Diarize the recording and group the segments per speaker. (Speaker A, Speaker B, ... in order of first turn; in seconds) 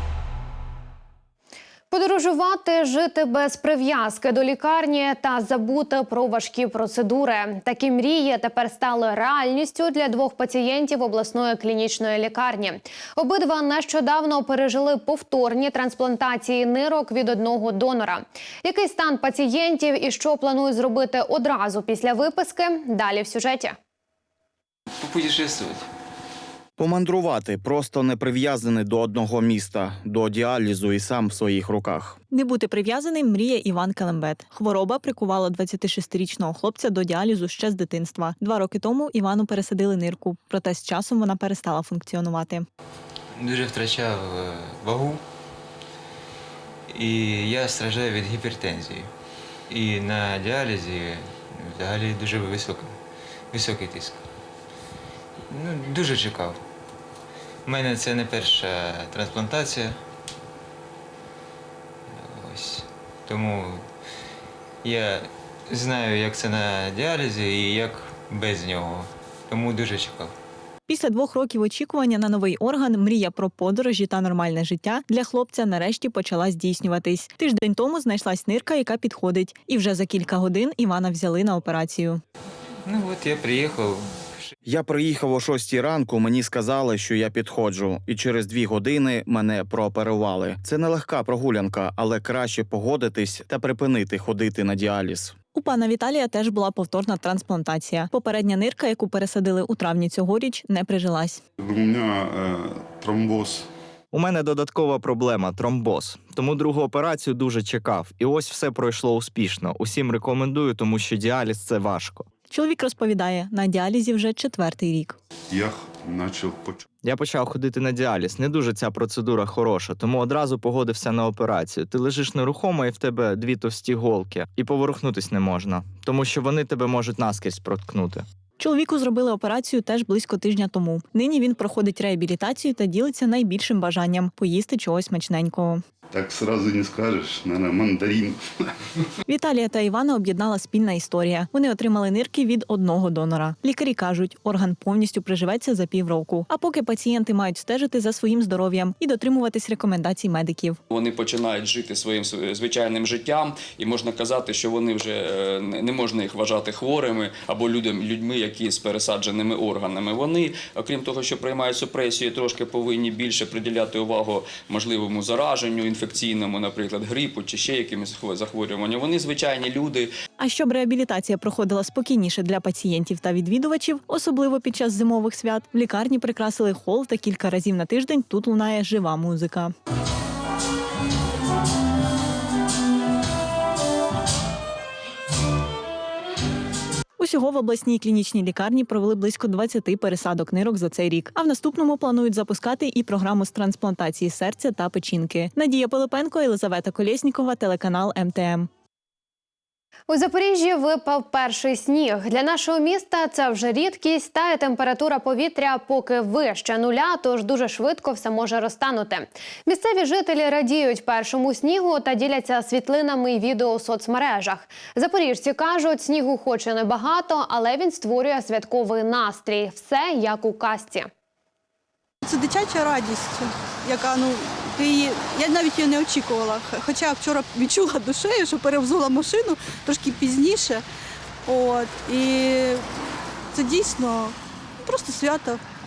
Speaker A: 1.9-23.8, 200.1-221.1
Speaker B: 25.2-25.7, 43.4-45.2, 46.9-49.1, 49.7-52.9, 53.5-54.2, 55.5-56.6, 57.7-60.0, 62.2-63.8, 64.8-70.3, 82.9-84.0
Speaker C: 26.8-32.2, 84.7-95.4
Speaker D: 32.3-42.7, 70.9-82.2, 95.5-101.4, 112.5-115.2, 128.6-135.8, 139.3-150.8, 170.4-179.7, 187.2-198.7
Speaker E: 101.6-103.7, 115.5-116.8, 136.1-138.4
Speaker F: 104.1-112.3, 117.0-128.3
Speaker G: 150.9-170.1
Speaker H: 222.2-230.8, 231.5-232.9, 233.5-235.6